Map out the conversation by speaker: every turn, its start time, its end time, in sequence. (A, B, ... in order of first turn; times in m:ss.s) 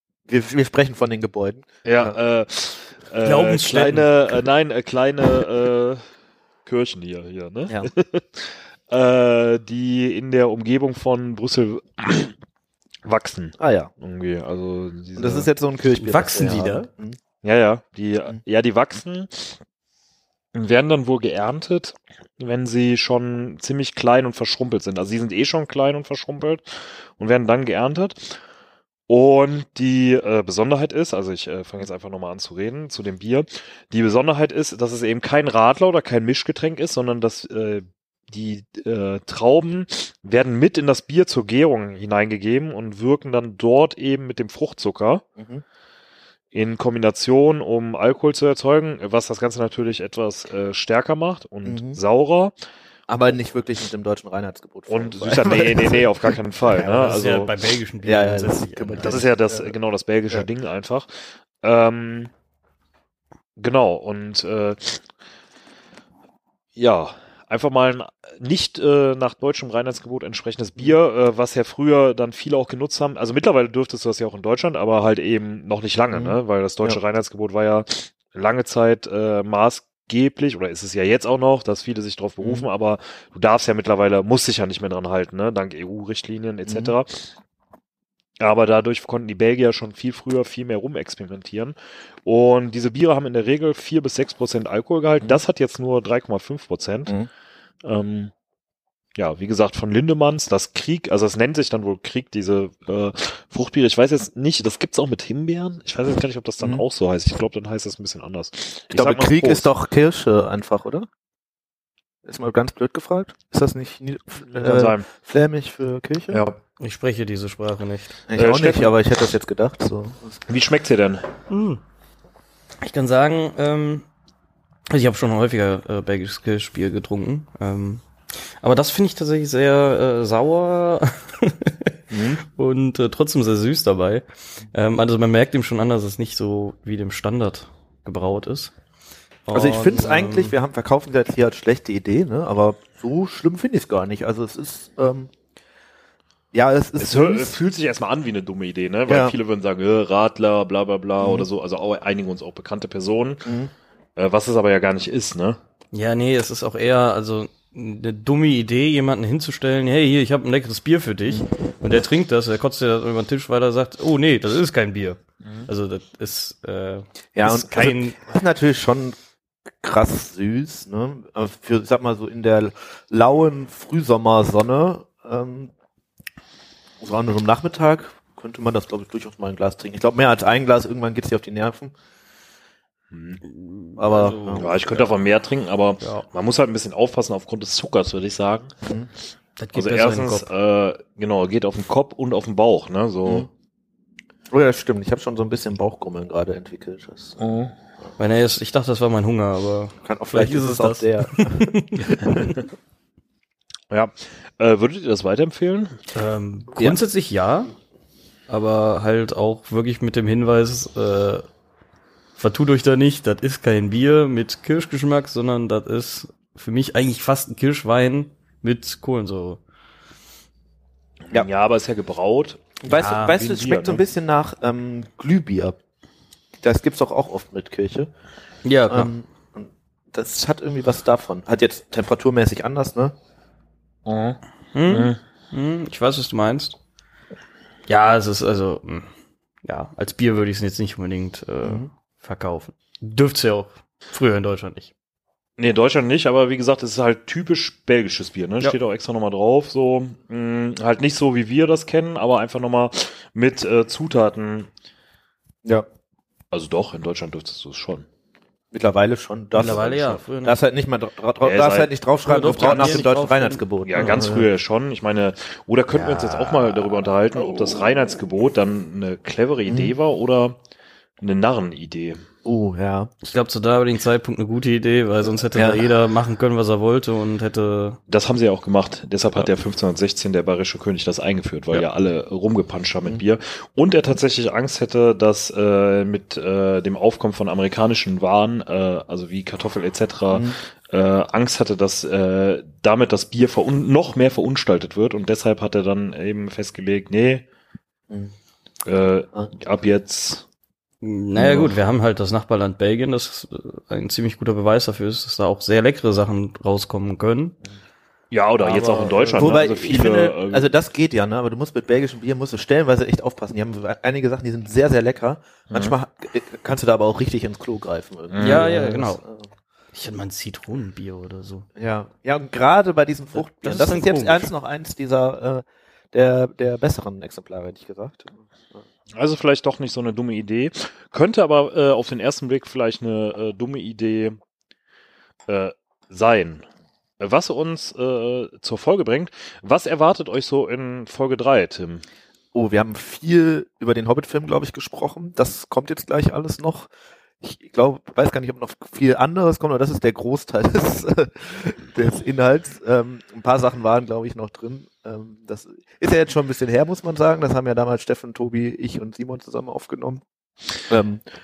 0:00.3-0:02.2 A
0:01.8-0:06.1 B
0:03.2-0:04.0 A
0:03.4-0:04.0 C
0:06.6-0:12.3 B
0:13.0-0:15.5 B
0:13.6-0:13.9 A
0:15.2-0:17.2 A
0:16.0-0:16.9 C
0:17.4-0:19.6 B
0:20.5-0:28.4 B
0:29.1-0:45.2 B
0:45.4-0:45.6 A
0:46.5-0:52.6 B
0:51.6-0:52.0 A
0:53.1-0:57.2 A
0:54.9-0:57.5 B
0:56.8-0:59.3 C
0:58.0-0:59.8 A
0:59.0-1:02.3 B
1:03.6-1:05.0 B
1:06.7-1:27.3 B
1:16.1-1:17.0 A
1:22.4-1:22.7 A
1:26.6-1:26.9 A
1:28.4-1:37.1 B
1:37.8-1:38.3 B
1:39.2-1:49.7 B
1:46.6-1:46.8 A
1:48.9-1:51.1 A
1:52.2-1:56.4 A
1:54.4-1:55.1 B
1:56.3-1:56.6 B
1:56.8-1:58.2 C
1:58.3-2:00.4 A
1:58.3-1:59.0 B
2:00.5-2:01.3 B
2:01.5-2:01.8 C
2:02.8-2:04.1 C
2:04.9-2:08.1 C
2:08.6-2:11.7 C
2:12.5-2:18.7 C
2:19.4-2:20.6 C
2:19.5-2:25.3 A
2:26.5-2:27.6 A
2:27.0-2:33.4 B
2:29.1-2:29.3 A
2:31.2-2:31.5 A
2:33.4-2:33.7 A
2:34.2-2:35.6 B
2:35.9-2:48.2 C
2:41.3-2:42.0 A
2:45.4-2:45.7 B
2:47.4-2:49.2 A
2:49.8-2:55.7 A
2:57.0-3:01.9 A
3:03.1-3:03.4 B
3:03.4-3:05.0 C
3:04.0-3:05.1 A
3:04.6-3:08.7 B
3:06.0-3:06.3 C
3:08.8-3:09.1 A
3:09.6-3:10.5 C
3:09.7-3:13.5 B
3:14.5-3:17.4 A
3:17.4-3:17.7 B
3:18.2-3:22.0 C
3:20.0-3:22.5 A
3:23.9-3:26.0 B
3:26.1-3:27.7 C
3:28.5-3:31.5 C
3:32.4-3:39.6 C
3:41.2-3:42.6 B
3:42.8-3:45.8 A
3:42.9-3:43.8 C
3:43.5-3:44.0 B
3:46.6-3:48.1 A
3:48.6-3:49.1 C
3:48.9-3:53.1 A
3:54.0-3:55.2 B
3:54.7-3:56.8 C
3:57.9-3:59.1 C
3:59.6-4:04.9 C
4:01.6-4:01.9 A
4:05.6-4:14.7 B
4:16.5-4:18.1 B
4:18.7-4:24.5 A
4:19.6-4:20.6 C
4:19.6-4:19.9 B
4:21.4-4:23.1 B
4:22.2-4:24.3 C
4:23.8-4:30.6 B
4:25.9-4:28.2 C
4:29.7-4:29.9 A
4:31.2-4:32.2 B
4:32.4-4:33.1 A
4:33.2-4:38.0 C
4:35.3-4:35.8 A
4:38.1-4:57.4 B
4:50.3-4:50.6 A
4:58.1-4:58.4 A
4:58.8-5:00.4 B
5:01.0-5:07.6 C
5:01.4-5:01.8 A
5:08.3-5:10.7 B
5:08.6-5:09.8 C
5:09.4-5:19.5 A
5:18.3-5:18.9 B
5:18.4-5:19.2 C
5:19.9-5:21.6 C
5:21.8-5:28.8 A
5:23.3-5:24.5 C
5:29.1-5:34.4 B
5:35.5-5:36.6 B
5:37.2-5:42.0 B
5:42.5-5:46.9 A
5:47.4-6:00.2 A
6:00.9-6:01.3 A